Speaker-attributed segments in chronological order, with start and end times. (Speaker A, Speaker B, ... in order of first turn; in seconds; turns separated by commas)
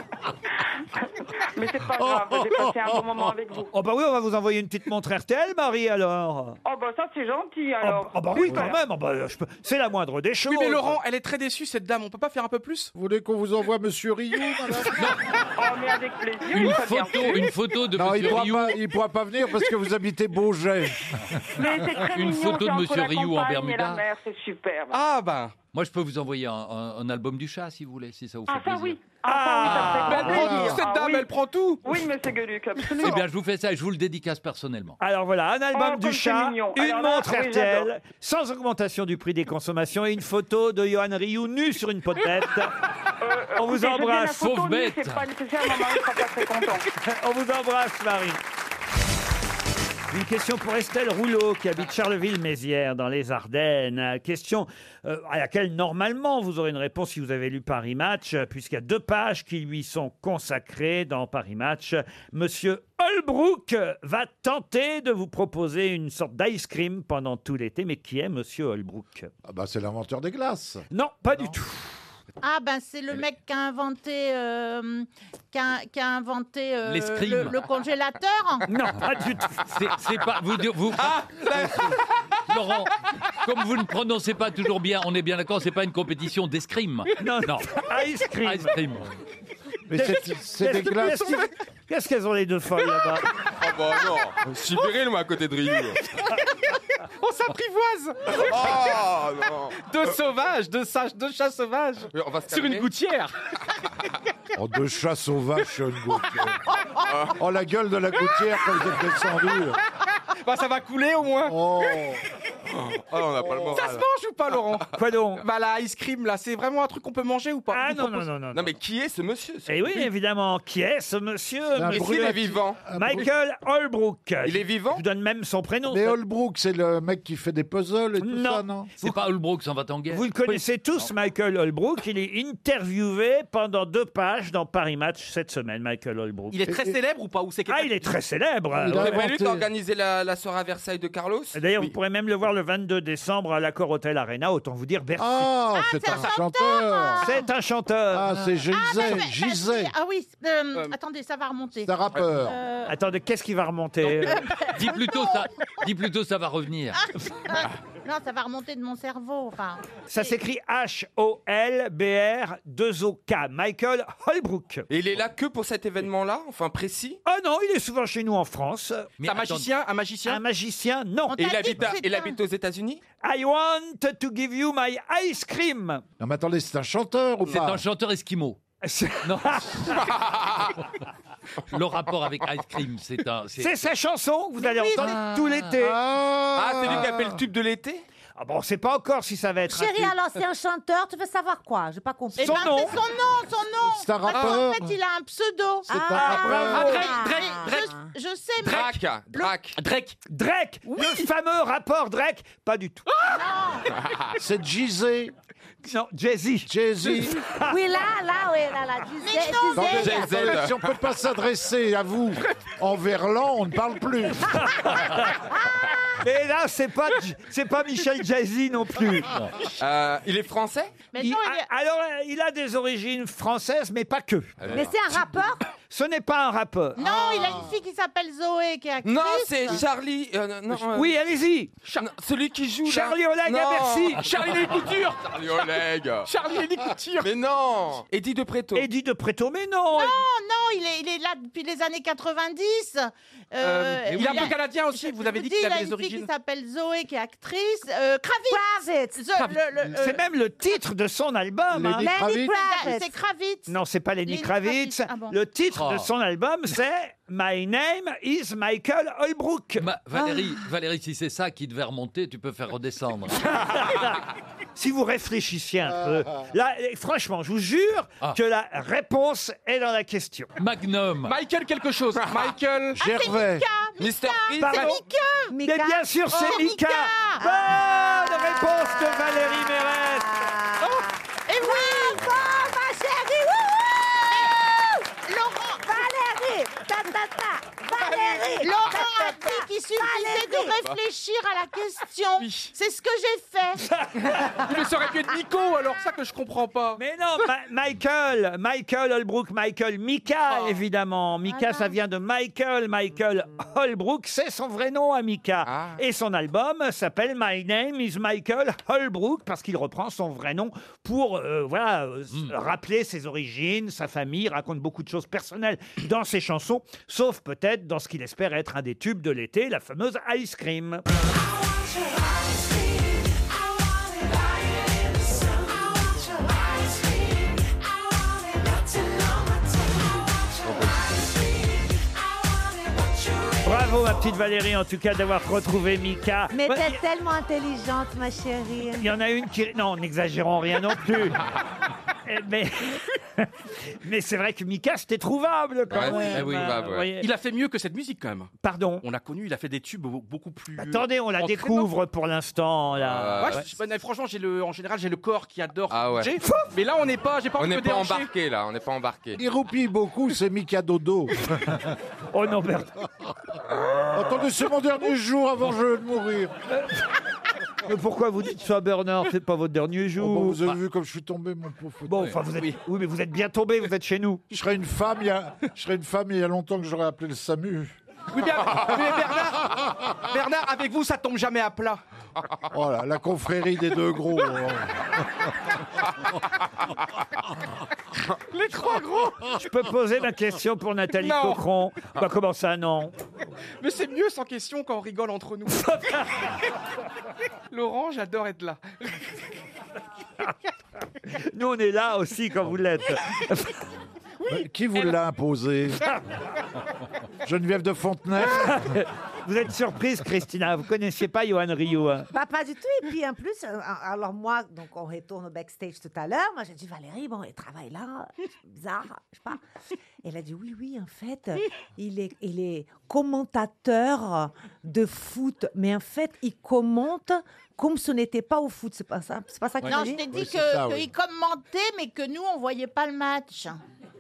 Speaker A: 0.9-3.7, Speaker B: 2.0-2.7, Speaker C: 3.7-6.6, Speaker A: 6.7-8.8, Speaker C: 7.8-10.9, Speaker D: 10.5-12.9, Speaker B: 12.9-15.1, Speaker E: 15.0-15.2, Speaker A: 15.6-17.5, Speaker E: 16.5-18.8, Speaker B: 17.9-21.2, Speaker A: 21.6-25.0, Speaker E: 21.9-24.0, Speaker D: 24.9-25.5, Speaker E: 25.7-29.1, Speaker A: 28.5-31.3, Speaker C: 29.3-30.7, Speaker E: 29.6-30.2, Speaker D: 29.9-31.9, Speaker B: 30.3-30.8, Speaker A: 31.8-33.2, Speaker E: 33.0-35.0, Speaker C: 35.0-42.8, Speaker A: 35.7-37.9, Speaker A: 43.2-46.9, Speaker C: 43.6-44.4, Speaker E: 44.4-45.3, Speaker C: 47.0-48.4, Speaker C: 50.1-69.3, Speaker B: 69.5-70.8, Speaker C: 70.9-71.9, Speaker F: 72.4-78.7, Speaker E: 76.8-77.6, Speaker C: 78.7-79.6, Speaker E: 79.7-81.7, Speaker G: 81.0-82.5, Speaker E: 82.5-87.8, Speaker C: 87.2-88.7, Speaker E: 88.4-89.1, Speaker B: 89.9-91.4, Speaker C: 89.9-93.3, Speaker G: 93.4-96.0, Speaker D: 97.0-99.0, Speaker G: 98.3-99.8, Speaker D: 99.8-103.3, Speaker G: 102.1-102.9, Speaker B: 104.5-106.6, Speaker G: 107.1-107.4, Speaker B: 107.3-109.8, Speaker D: 110.1-111.6, Speaker B: 111.5-112.2, Speaker G: 112.7-114.1, Speaker B: 113.4-113.8, Speaker D: 113.7-114.9, Speaker C: 115.0-115.4, Speaker D: 115.4-118.3, Speaker C: 117.7-118.7, Speaker G: 118.5-120.1, Speaker C: 119.7-122.4, Speaker B: 121.7-123.3, Speaker G: 121.9-122.8, Speaker C: 122.9-126.2, Speaker G: 124.4-125.0, Speaker B: 125.9-128.9, Speaker C: 128.2-129.2, Speaker E: 129.0-130.3, Speaker C: 130.1-136.6, Speaker D: 136.5-138.1, Speaker B: 136.7-137.0, Speaker C: 137.7-139.2, Speaker B: 138.7-139.7, Speaker G: 138.9-141.6, Speaker C: 141.6-145.6, Speaker B: 145.2-147.3, Speaker F: 145.7-147.5, Speaker C: 147.2-148.3, Speaker B: 148.1-149.9, Speaker F: 148.5-152.9, Speaker B: 151.8-152.6, Speaker C: 152.9-154.5, Speaker F: 154.1-155.5, Speaker E: 154.7-157.0, Speaker F: 156.9-160.3, Speaker C: 160.1-164.9, Speaker G: 164.9-167.2, Speaker C: 167.3-169.1, Speaker E: 169.2-169.7, Speaker D: 169.2-170.4, Speaker C: 170.3-171.4, Speaker F: 171.3-172.4, Speaker G: 171.4-173.0, Speaker C: 173.2-176.0, Speaker B: 176.2-177.8, Speaker E: 177.5-178.6, Speaker C: 178.8-180.0, Speaker E: 179.2-179.8, Speaker G: 179.9-180.8, Speaker E: 181.7-183.8, Speaker C: 183.6-186.0, Speaker F: 184.6-185.2, Speaker E: 185.0-185.5, Speaker B: 185.7-187.4, Speaker G: 186.6-188.0, Speaker C: 188.4-190.2, Speaker H: 189.7-193.0, Speaker F: 192.3-198.9, Speaker C: 192.4-193.0, Speaker B: 193.9-194.9, Speaker H: 195.9-198.1, Speaker B: 195.9-196.8, Speaker C: 196.1-197.2, Speaker D: 196.8-197.9, Speaker G: 198.6-199.8, Speaker D: 198.6-200.2, Speaker C: 200.3-203.0, Speaker D: 201.0-201.2, Speaker D: 203.1-203.4, Speaker F: 203.3-203.9, Speaker G: 203.9-204.3, Speaker B: 204.4-205.3, Speaker C: 205.8-206.7, Speaker B: 206.7-207.4, Speaker C: 207.4-207.8, Speaker H: 207.6-210.4, Speaker F: 209.2-210.2, Speaker B: 209.7-214.6, Speaker G: 210.0-210.9, Speaker C: 214.6-215.3, Speaker C: 216.2-219.3, Speaker G: 219.8-220.9, Speaker F: 221.1-221.7, Speaker C: 221.2-224.7, Speaker G: 224.6-224.9, Speaker H: 224.7-225.6, Speaker C: 225.9-227.2, Speaker F: 227.0-229.8, Speaker G: 229.0-231.2, Speaker C: 230.9-231.7, Speaker G: 232.0-236.3, Speaker C: 232.8-234.2, Speaker D: 234.2-235.3, Speaker D: 236.3-237.3, Speaker G: 237.2-238.9, Speaker C: 238.7-240.2, Speaker F: 239.9-250.2, Speaker D: 243.6-246.3, Speaker E: 244.2-244.5, Speaker H: 248.5-249.3, Speaker C: 250.0-252.1, Speaker B: 251.7-252.6, Speaker H: 251.9-253.2, Speaker F: 252.5-255.4, Speaker C: 253.7-259.9, Speaker E: 255.7-256.1, Speaker E: 259.8-263.6, Speaker C: 263.5-264.2, Speaker C: 264.8-270.5, Speaker B: 265.9-266.5, Speaker E: 270.6-271.4, Speaker D: 271.2-273.0, Speaker G: 272.2-272.6, Speaker B: 273.0-273.7, Speaker F: 273.0-275.5, Speaker G: 274.0-275.0, Speaker D: 274.6-274.9, Speaker H: 275.5-276.8, Speaker C: 275.6-280.3, Speaker F: 276.3-277.4, Speaker H: 277.4-285.1, Speaker F: 281.5-282.3, Speaker F: 284.3-285.8, Speaker H: 285.8-290.9, Speaker F: 288.2-293.8, Speaker D: 292.4-292.7, Speaker D: 294.6-297.0, Speaker C: 297.0-321.1, Speaker D: 300.5-300.8, Speaker F: 301.5-302.0, Speaker G: 305.6-306.0, Speaker C: 333.6-337.0, Speaker H: 336.5-339.1, Speaker C: 339.0-341.4, Speaker C: 342.3-343.5, Speaker C: 344.0-347.3, Speaker G: 345.9-347.1, Speaker F: 346.0-346.5, Speaker D: 347.2-348.5, Speaker C: 348.6-349.1, Speaker D: 349.0-351.9, Speaker C: 350.8-353.7, Speaker G: 353.0-353.7, Speaker D: 353.4-358.3, Speaker G: 355.9-356.3, Speaker G: 357.6-359.4, Speaker B: 359.4-361.9, Speaker C: 362.3-362.9, Speaker B: 364.1-366.5, Speaker C: 366.7-367.1, Speaker C: 367.9-370.6, Speaker B: 370.2-372.4, Speaker C: 372.1-374.4, Speaker B: 374.5-378.0, Speaker D: 378.3-382.0, Speaker B: 382.7-385.1, Speaker D: 388.5-389.5, Speaker C: 389.6-393.1, Speaker D: 391.2-391.6, Speaker D: 393.8-395.9, Speaker C: 395.7-396.2, Speaker D: 397.7-399.2, Speaker C: 401.5-403.8, Speaker B: 404.5-406.0, Speaker B: 407.4-409.0, Speaker C: 408.4-412.3, Speaker H: 412.3-419.6, Speaker H: 420.2-430.3, Speaker F: 429.9-433.8, Speaker B: 430.3-431.1